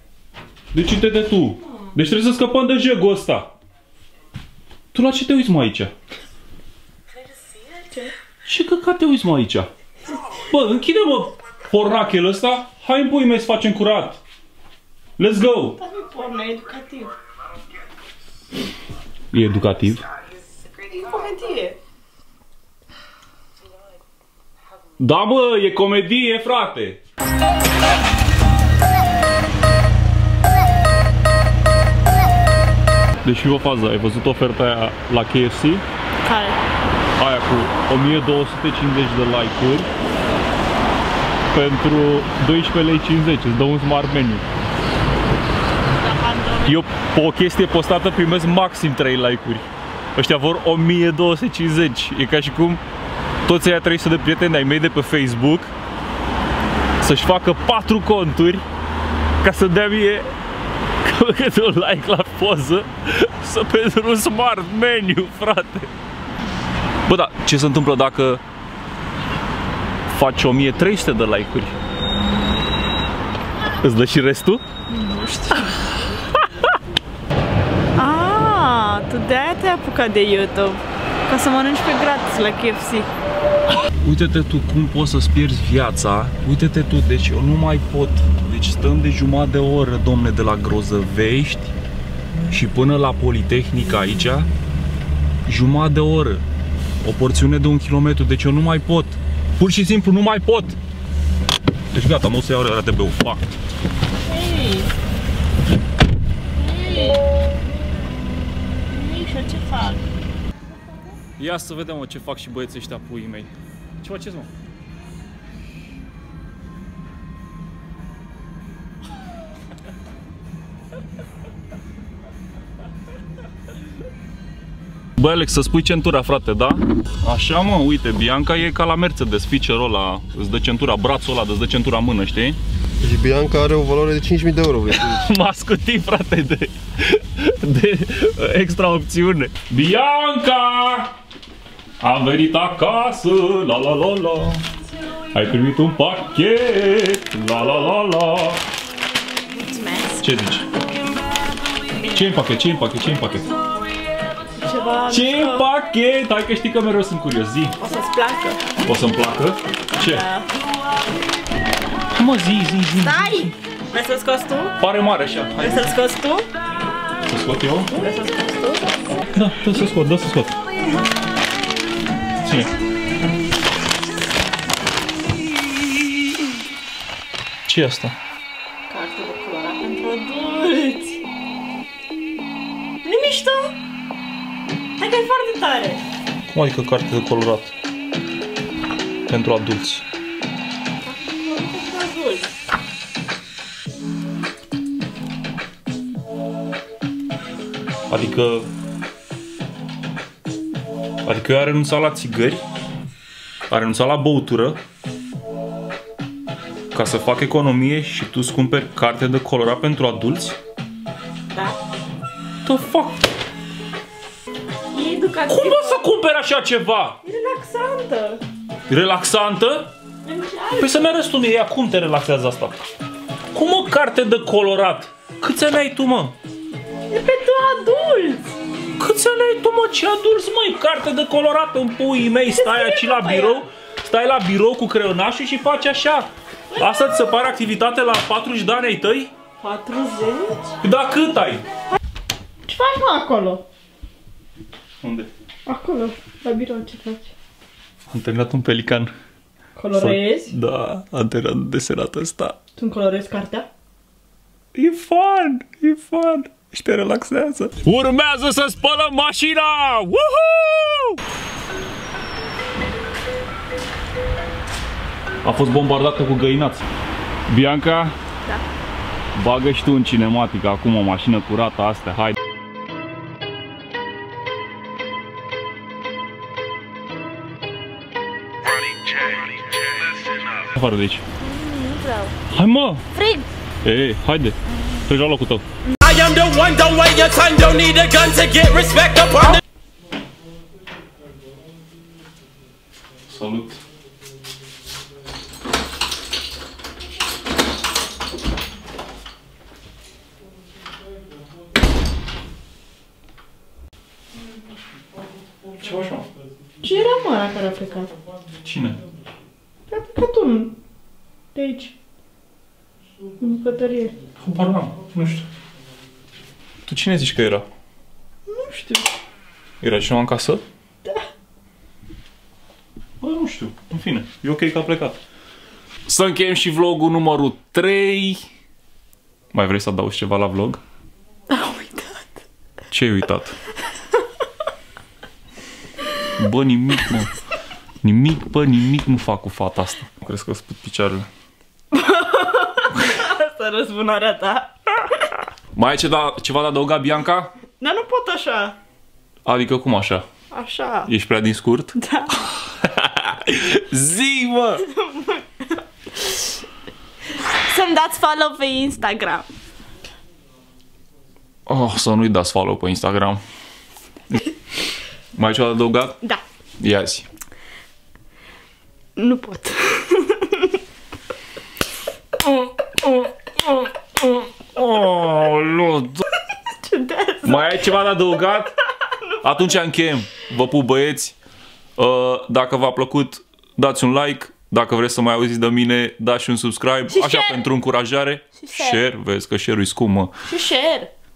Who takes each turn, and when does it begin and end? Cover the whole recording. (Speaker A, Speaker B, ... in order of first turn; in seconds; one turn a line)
Speaker A: 0.7-3.5
Speaker A: 4.9-5.9
Speaker A: 8.4-9.7
Speaker A: 10.3-14.2
Speaker A: 15.2-15.8
Speaker B: 15.8-17.1
Speaker A: 19.3-20.1
Speaker B: 20.8-21.8
Speaker A: 25.0-27.0
Speaker A: 33.2-35.8
Speaker B: 36.2-36.6
Speaker A: 37.2-39.9
Speaker A: 41.5-44.4
Speaker B: 46.0-46.7
Speaker A: 46.6-49.6
Speaker A: 50.2-52.8
Speaker A: 53.5-55.7
Speaker A: 57.0-58.6
Speaker A: 59.4-60.3
Speaker A: 61.0-65.9
Speaker A: 67.1-68.4
Speaker A: 70.1-71.8
Speaker A: 73.8-74.6
Speaker B: 74.9-75.9
Speaker B: 78.0-83.1
Speaker A: 84.0-91.8
Speaker A: 92.5-94.5
Speaker A: 95.5-96.4
Speaker A: 97.0-100.8
Speaker A: 101.9-103.4
Speaker B: 104.3-104.9
Speaker B: 106.6-107.2
Speaker B: 108.9-110.0
Speaker A: 111.4-114.5
Speaker A: 125.2-132.6
Speaker C: 133.0-135.2
Speaker A: 134.9-141.1
Speaker A: 142.0-144.6
Speaker A: 145.3-148.6
Speaker B: 149.5-150.2
Speaker A: 150.2-150.7
Speaker A: 152.1-153.5
Speaker B: 154.6-155.7
Speaker A: 155.1-157.8
Speaker B: 157.8-158.6
Speaker A: 158.8-160.2
Speaker B: 160.0-160.5
Speaker A: 162.2-163.6
Speaker B: 163.0-164.8
Speaker A: 164.8-166.0
Speaker B: 165.6-166.5
Speaker A: 167.3-167.9
Speaker B: 167.9-169.1
Speaker A: 169.3-170.6
Speaker A: 172.4-172.7
Speaker A: 177.7-178.2
Speaker B: 178.9-181.2
Speaker B: 183.0-183.8
Speaker B: 185.0-186.0
Speaker A: 186.5-187.7
Speaker A: 189.3-190.0
Speaker B: 191.0-192.5
Speaker A: 198.1-198.7
Speaker A: 201.2-202.6
Speaker A: 203.7-204.8
Speaker A: 206.9-210.6
Speaker B: 211.5-211.8
Speaker A: 212.6-213.2
Speaker B: 214.9-216.0
Speaker A: 215.5-217.2
Speaker B: 217.2-218.4
Speaker A: 218.9-219.9
Speaker B: 220.2-221.0
Speaker A: 220.8-222.9
Speaker A: 223.5-226.4
Speaker B: 227.1-228.5
Speaker A: 229.0-239.3
Speaker B: 232.5-233.6
Speaker B: 239.6-240.8
Speaker A: 240.8-241.6
Speaker B: 242.7-243.6
Speaker A: 245.0-245.3
Speaker B: 245.7-247.3
Speaker A: 248.1-249.1
Speaker B: 249.8-250.6
Speaker A: 249.9-252.6
Speaker B: 252.8-253.7
Speaker A: 254.8-261.2
Speaker A: 265.4-266.9
Speaker A: 267.5-268.1
Speaker A: 269.4-272.4
Speaker A: 280.6-281.2
Speaker B: 281.4-282.4
Speaker A: 282.5-283.1
Speaker B: 283.1-283.5
Speaker A: 283.8-285.6
Speaker D: 286.1-289.5
Speaker B: 286.3-287.8
Speaker B: 288.7-289.5
Speaker A: 293.3-293.8
Speaker A: 305.8-306.2
Speaker B: 306.8-308.1
Speaker A: 308.6-309.0
Speaker B: 309.9-310.8
Speaker B: 311.6-311.9
Speaker B: 313.4-314.2
Speaker A: 314.4-315.5
Speaker A: 316.9-317.7
Speaker B: 318.5-319.1
Speaker A: 319.8-320.6
Speaker A: 323.2-325.2
Speaker A: 326.1-328.4
Speaker A: 329.5-330.8
Speaker B: 331.5-332.3
Speaker A: 332.9-333.6
Speaker A: 336.4-337.3
Speaker A: 338.0-341.3
Speaker B: 341.9-345.4
Speaker A: 345.8-347.5
Speaker B: 347.8-348.8
Speaker A: 349.4-350.3
Speaker B: 350.5-351.1
Speaker A: 351.1-354.9
Speaker B: 352.0-352.4
Speaker B: 354.8-356.6
Speaker B: 357.4-359.5
Speaker A: 361.7-363.4
Speaker A: 365.4-366.2
Speaker A: 366.8-367.3
Speaker B: 369.2-370.8
Speaker A: 373.0-376.2
Speaker B: 376.8-377.9
Speaker A: 377.4-378.7
Speaker A: 379.4-381.4
Speaker A: 382.0-390.3
Speaker B: 387.1-387.6
Speaker B: 388.6-389.0
Speaker B: 390.5-391.1